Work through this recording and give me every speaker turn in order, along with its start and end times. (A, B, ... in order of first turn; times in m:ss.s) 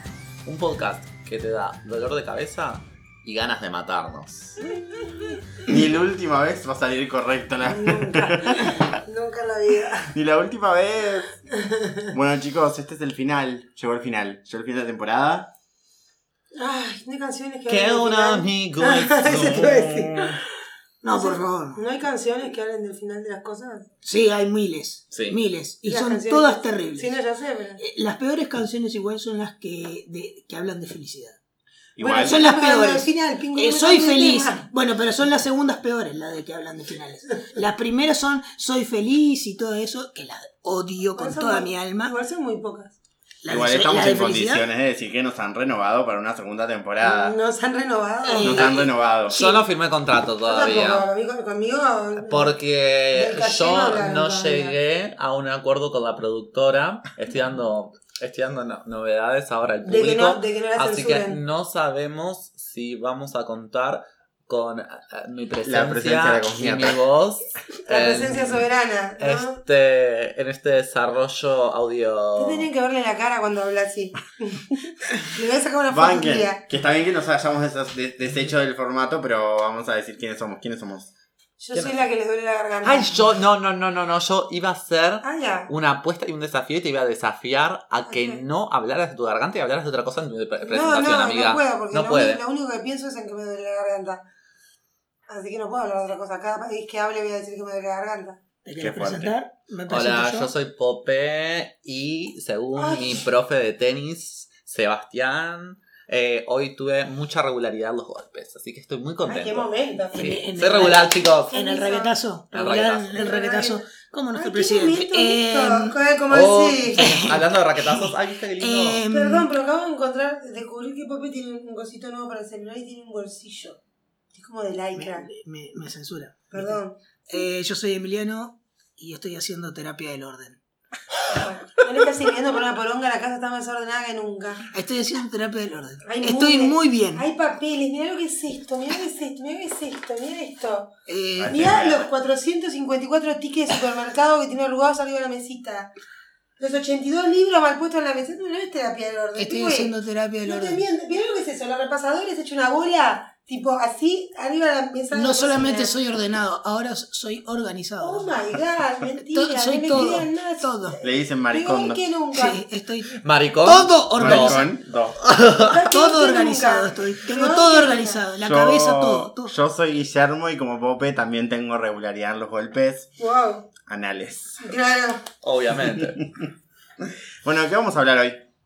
0:00.4-0:04.7 A
0:04.6-0:05.4 B
0:05.6-0:08.8 C
0:07.6-0:10.1 B
0:10.1-0:11.4 C
0:11.5-0:12.1 B
0:12.1-0:15.5 C
0:16.5-0:20.4 B
0:17.7-0:20.4 A
0:21.0-0:21.8 D
0:21.1-0:23.9 B
0:24.0-0:27.1 D
0:25.1-0:25.4 A
0:25.8-0:27.8 B
0:27.8-0:31.4 D
0:32.0-0:32.4 C
0:32.0-0:34.7 B
0:32.2-0:42.1 D
0:41.2-0:43.0 B
0:43.4-0:44.6 D
0:43.5-0:47.4 C
0:47.0-0:48.7 B
0:48.2-0:49.6 D
0:48.4-0:49.4 C
0:49.2-0:51.0 A
0:50.4-0:52.5 B
0:52.3-1:08.6 A
0:53.1-0:54.7 B
0:59.8-1:01.4 B
1:05.6-1:07.0 C
1:07.8-1:09.6 B
1:09.2-1:12.7 A
1:12.4-1:16.6 B
1:15.9-1:21.1 C
1:21.6-1:23.2 B
1:21.7-1:22.0 A
1:22.8-1:32.4 A
1:25.2-1:25.7 B
1:28.1-1:28.4 B
1:30.7-1:34.2 B
1:35.3-1:38.4 B
1:38.6-1:40.5 D
1:38.8-1:39.3 C
1:39.9-1:51.6 A
1:42.8-1:43.2 B
1:49.2-1:50.4 B
1:50.1-1:55.9 D
1:51.5-1:52.1 B
1:52.5-1:53.1 A
1:53.1-1:57.2 B
1:56.3-1:59.0 A
1:57.0-1:59.5 D
1:59.1-2:03.8 B
2:04.3-2:05.3 B
2:05.0-2:06.7 D
2:06.5-2:07.4 B
2:07.3-2:10.6 D
2:11.3-2:14.6 B
2:14.7-2:17.2 D
2:16.0-2:20.9 B
2:21.1-2:21.6 D
2:21.4-2:22.1 C
2:21.4-2:25.9 B
2:26.6-2:36.0 B
2:29.4-2:30.8 D
2:35.1-2:38.2 D
2:38.0-2:42.6 B
2:39.3-2:41.0 D
2:41.0-2:42.0 C
2:42.3-2:44.6 D
2:43.2-2:44.6 A
2:44.2-2:45.2 C
2:45.2-2:45.8 A
2:45.6-2:48.2 B
2:45.8-2:49.5 D
2:48.4-2:53.1 C
2:53.2-2:53.7 B
2:53.9-2:54.6 C
2:54.6-2:55.2 B
2:55.4-2:56.2 A
2:57.0-2:58.4 C